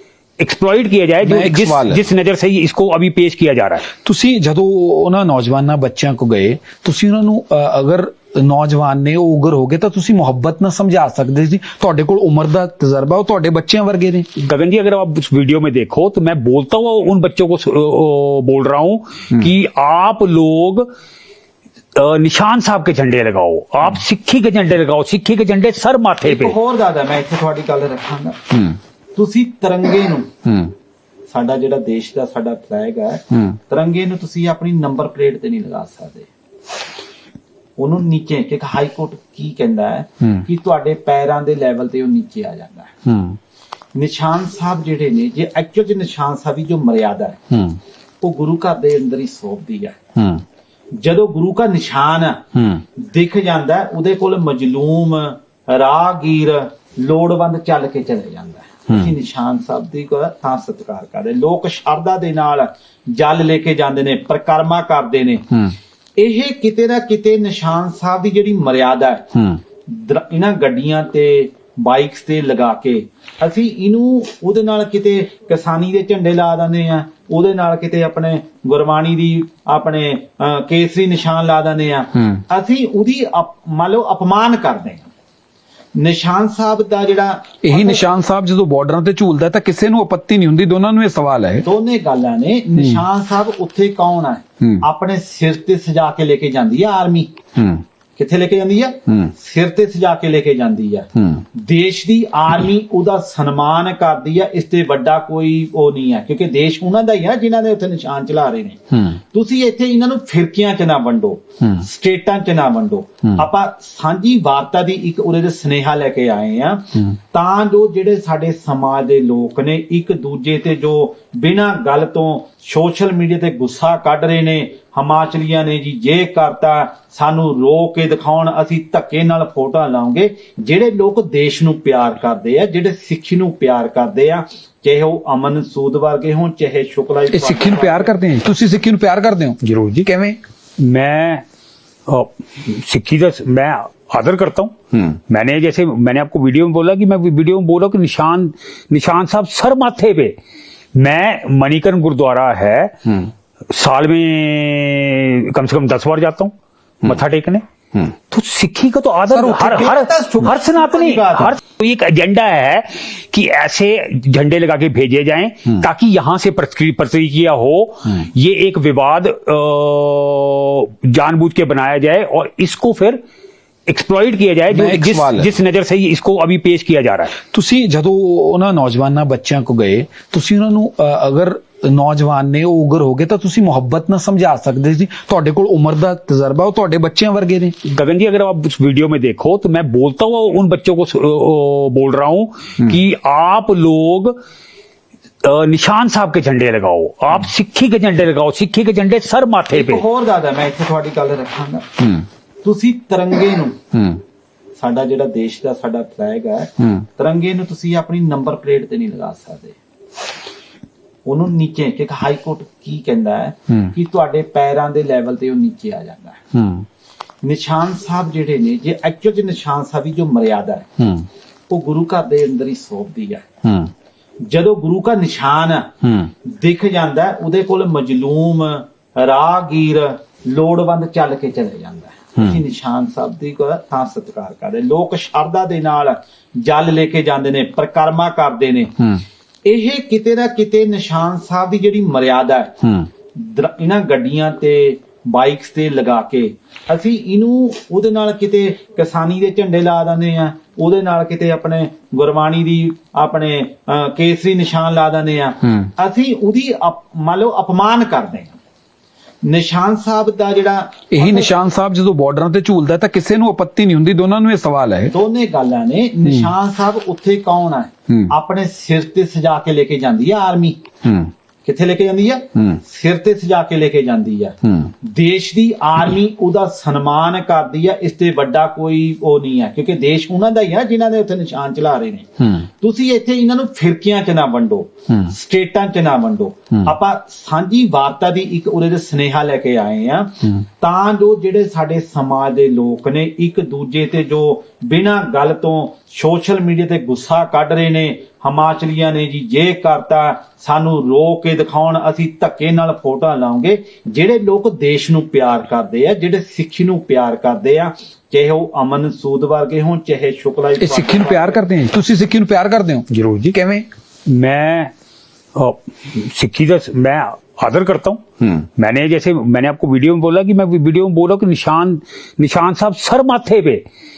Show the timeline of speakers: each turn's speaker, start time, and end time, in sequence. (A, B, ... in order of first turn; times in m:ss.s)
0:00.4-0:03.9 A
0:01.2-0:02.1 B
0:04.0-0:14.3 B
0:14.4-0:20.9 A
0:22.0-0:26.6 A
0:26.2-0:28.6 C
0:28.5-0:28.8 B
0:29.2-0:30.4 C
0:30.4-0:30.7 B
0:31.3-0:36.3 C
0:37.8-0:43.0 C
0:43.1-0:43.4 B
0:44.0-0:47.5 C
0:47.5-0:47.8 B
0:48.2-0:50.0 C
0:50.2-0:50.4 B
0:51.0-0:52.4 C
0:52.6-0:52.8 B
0:53.0-1:05.5 C
1:06.2-1:09.3 C
1:09.4-1:09.6 B
1:09.9-1:25.1 C
1:26.0-1:28.0 C
1:27.6-1:31.7 B
1:31.6-1:37.3 C
1:32.8-1:33.0 B
1:37.6-1:37.8 B
1:38.2-2:18.1 C
1:41.2-1:41.4 B
2:17.3-2:20.4 B
2:19.6-2:20.1 A
2:20.8-2:21.4 A
2:22.1-2:30.4 A
2:31.0-2:53.2 A
2:39.3-2:41.6 C
2:53.9-2:57.4 A
2:54.7-2:55.6 B
2:57.5-3:07.8 B
3:07.8-3:14.4 A
3:15.4-3:20.0 A
3:19.7-3:21.9 C
3:22.0-3:22.3 B
3:22.6-3:23.8 C
3:23.9-3:24.2 B
3:24.8-3:29.8 C
3:31.3-3:36.5 C
3:36.5-3:36.9 B
3:37.4-3:40.9 C
3:41.0-3:41.3 B
3:41.7-3:43.5 C
3:43.6-3:43.9 B
3:44.5-3:45.9 C
3:46.0-3:46.3 B
3:46.4-3:58.9 C
3:59.7-4:02.8 C
4:02.8-4:03.1 B
4:03.4-4:18.6 C
4:19.4-4:21.5 C
4:21.1-4:25.1 B
4:25.1-4:30.8 C
4:26.2-4:26.5 B
4:31.0-4:31.3 B
4:31.6-5:11.6 C
4:34.6-4:34.9 B
5:10.8-5:13.9 B
5:13.1-5:13.6 A
5:14.3-5:14.9 A
5:15.6-5:23.8 A